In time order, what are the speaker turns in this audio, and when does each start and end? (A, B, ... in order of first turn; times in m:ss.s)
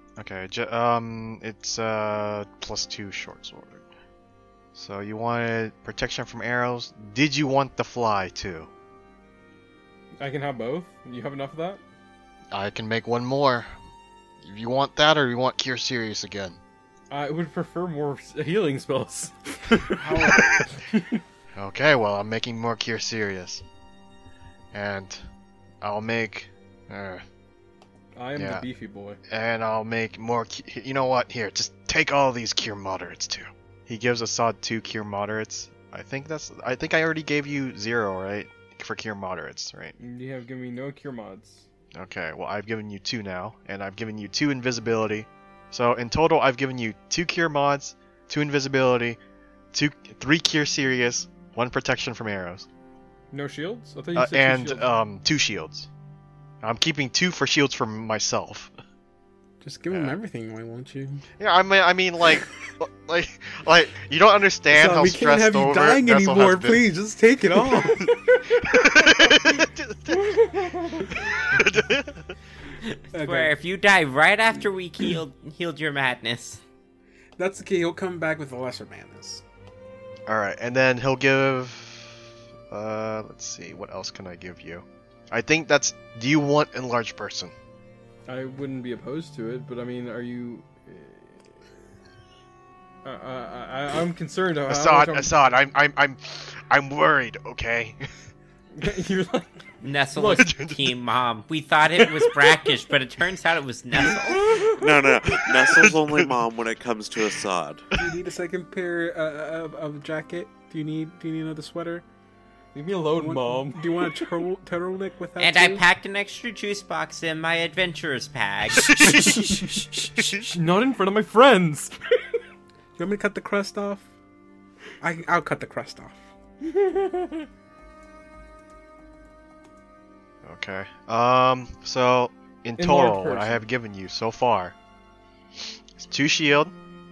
0:00.2-0:03.9 A
0:04.8-0:08.7 A
0:10.2-0:11.8 B
0:12.5-0:13.7 A
0:14.4-0:16.6 A
0:17.1-0:21.2 B
0:20.0-0:20.8 C
0:21.6-0:23.6 A
0:24.7-0:25.3 A
0:25.8-0:27.2 A
0:28.2-0:29.2 B
0:28.4-0:28.7 A
0:29.3-0:40.0 A
0:40.0-0:41.7 B
0:42.0-0:49.2 A
0:49.7-0:52.7 A
0:53.3-0:54.9 B
0:54.2-0:55.9 A
0:56.6-0:58.7 A
0:59.6-1:01.2 C
0:59.9-1:00.2 A
1:01.4-1:06.8 A
1:04.7-1:08.1 C
1:08.7-1:12.3 A
1:10.1-1:11.1 B
1:13.1-1:13.5 C
1:13.1-1:16.6 D
1:17.4-1:19.4 C
1:20.3-1:27.5 A
1:28.3-1:31.6 B
1:33.0-1:35.4 B
1:34.7-1:38.0 A
1:38.8-1:39.6 B
1:39.8-1:44.5 D
1:40.1-1:40.5 B
1:40.3-1:40.9 A
1:42.0-1:42.4 B
1:44.0-1:45.0 B
1:44.8-1:47.9 E
1:45.4-1:46.2 A
1:48.0-1:52.0 C
1:52.7-1:53.9 B
1:53.2-1:55.8 C
1:55.4-1:59.0 D
1:58.8-2:01.9 B
1:59.0-1:59.4 A
2:03.0-2:04.1 C
2:05.0-2:06.2 C
2:06.6-2:07.5 B
2:10.4-2:14.8 A
2:12.8-2:13.6 B
2:16.0-2:16.7 A